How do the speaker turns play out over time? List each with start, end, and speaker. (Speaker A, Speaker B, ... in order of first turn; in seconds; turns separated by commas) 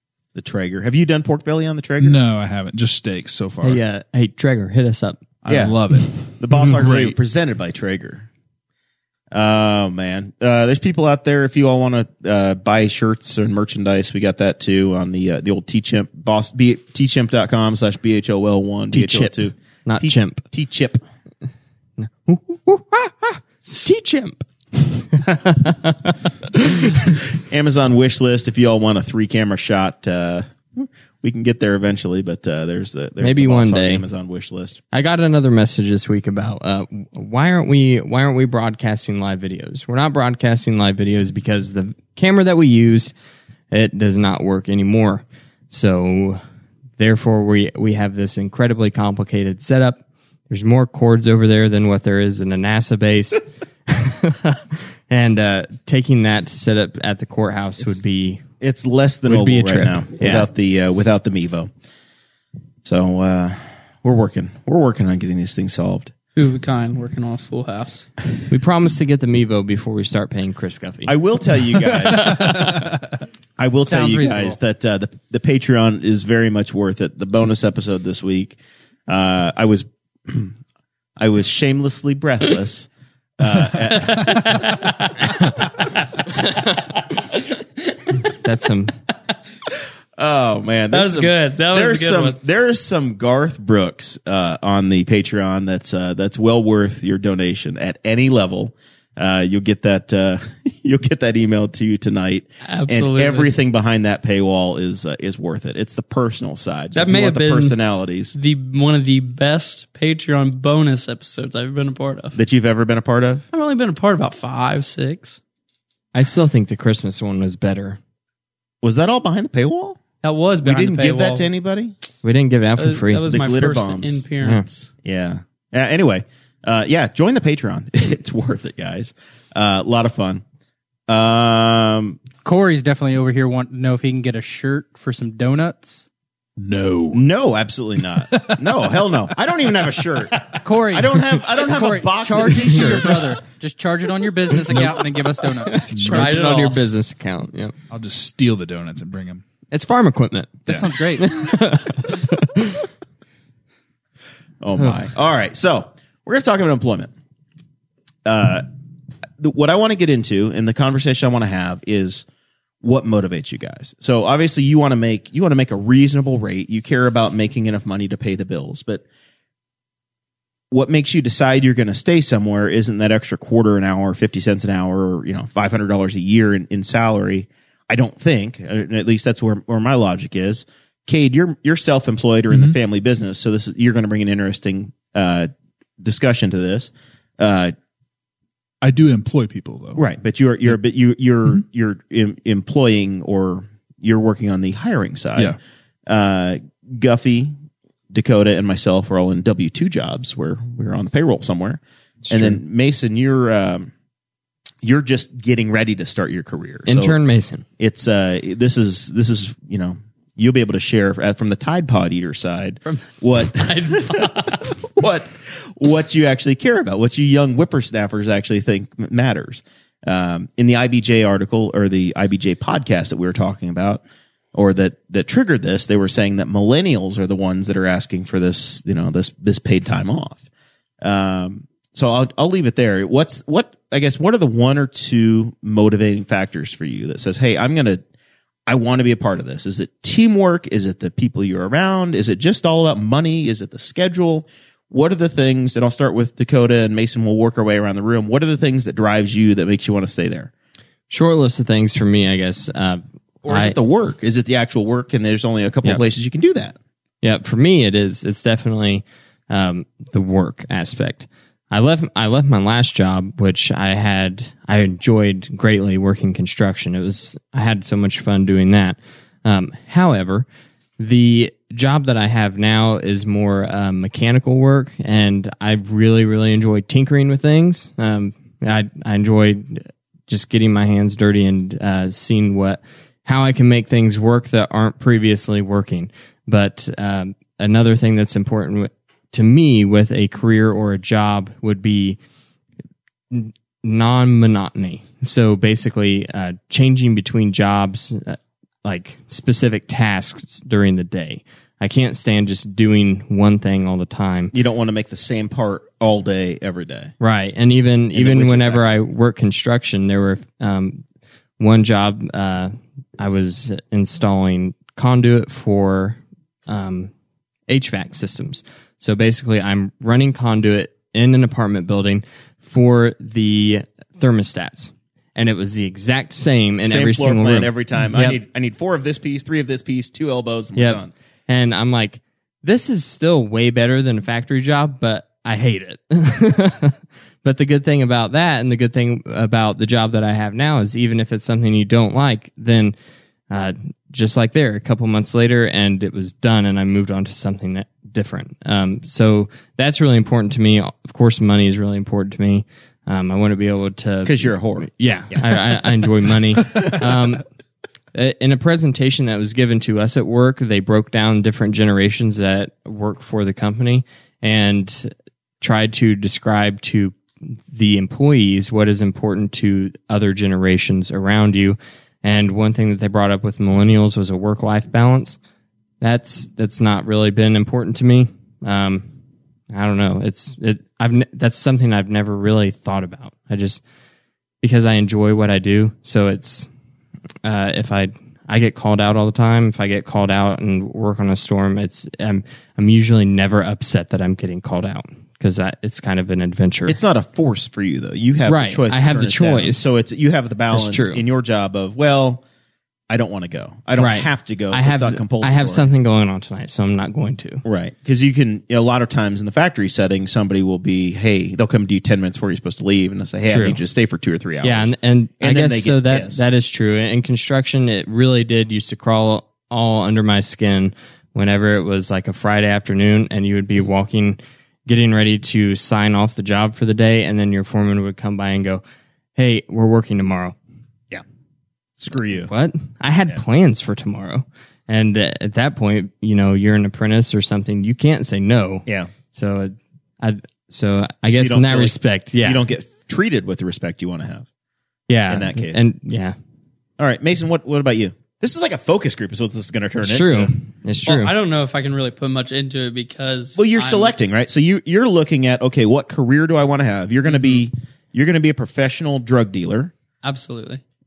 Speaker A: 0.3-2.2, Speaker B: 2.0-3.8, Speaker C: 3.6-5.2, Speaker B: 5.4-7.1, Speaker A: 5.5-8.3, Speaker A: 9.3-21.0, Speaker C: 18.9-20.4, Speaker C: 22.0-27.1, Speaker A: 27.4-34.8, Speaker C: 33.2-34.0, Speaker C: 34.9-43.1, Speaker C: 43.7-46.4, Speaker C: 47.0-58.4, Speaker A: 58.6-61.7, Speaker C: 59.3-60.5, Speaker A: 62.8-66.1, Speaker D: 66.3-68.1, Speaker C: 68.5-71.1, Speaker A: 71.0-72.7, Speaker A: 73.6-80.5, Speaker E: 73.9-74.5, Speaker A: 81.2-82.9, Speaker A: 83.4-84.8, Speaker D: 83.9-84.8, Speaker C: 88.3-88.9, Speaker A: 90.2-108.3, Speaker D: 90.9-92.4, Speaker D: 102.6-103.5, Speaker D: 106.9-107.8, Speaker D: 108.3-112.3, Speaker A: 112.3-113.5, Speaker D: 113.5-115.4, Speaker C: 116.1-118.0, Speaker A: 118.8-120.0, Speaker D: 120.2-121.5, Speaker A: 120.6-121.9, Speaker C: 122.2-123.3, Speaker D: 122.8-124.9, Speaker A: 123.3-124.2, Speaker A: 125.0-130.4, Speaker A: 131.1-132.2, Speaker E: 132.4-136.1, Speaker B: 136.6-137.2, Speaker A: 137.1-143.2, Speaker B: 138.3-138.8, Speaker E: 140.6-145.9, Speaker C: 142.5-142.8, Speaker C: 145.6-147.7, Speaker B: 145.9-146.4, Speaker D: 146.0-146.8, Speaker B: 147.9-149.4, Speaker C: 149.7-152.8, Speaker B: 150.7-151.0, Speaker E: 150.7-151.3, Speaker A: 154.6-157.1, Speaker A: 158.2-158.7, Speaker A: 159.4-162.2, Speaker A: 162.8-169.0, Speaker A: 170.7-187.7, Speaker B: 182.5-182.8, Speaker B: 188.8-190.0, Speaker A: 189.9-197.5, Speaker A: 198.1-203.9, Speaker B: 202.3-202.6, Speaker A: 204.8-207.2, Speaker C: 206.9-207.6, Speaker A: 207.8-230.4, Speaker D: 212.9-214.7, Speaker A: 231.0-238.0, Speaker A: 238.7-250.5, Speaker C: 251.1-253.8, Speaker A: 253.4-256.8, Speaker C: 257.2-270.4, Speaker C: 271.0-292.2, Speaker C: 293.3-304.5, Speaker A: 304.5-307.1, Speaker C: 307.2-311.0, Speaker A: 308.1-308.8, Speaker C: 311.6-317.1, Speaker C: 317.7-328.4, Speaker A: 326.8-331.1, Speaker C: 330.8-342.9, Speaker C: 343.5-357.4, Speaker A: 354.2-355.7, Speaker C: 358.1-375.4, Speaker C: 376.0-379.1, Speaker C: 379.7-383.8, Speaker C: 384.6-386.7, Speaker C: 387.4-397.0, Speaker A: 396.9-402.4, Speaker C: 398.5-399.9, Speaker C: 400.7-401.2, Speaker A: 403.1-405.9, Speaker C: 404.0-407.6, Speaker A: 407.6-416.5, Speaker C: 413.5-413.8, Speaker C: 414.6-428.8, Speaker C: 429.4-430.6, Speaker A: 432.0-432.5, Speaker C: 432.5-442.6, Speaker A: 438.9-439.1, Speaker A: 441.3-444.5, Speaker C: 445.1-446.4, Speaker A: 445.3-445.8, Speaker A: 447.0-450.5, Speaker C: 450.0-451.3, Speaker D: 451.1-454.1, Speaker A: 453.6-459.9, Speaker D: 460.2-460.8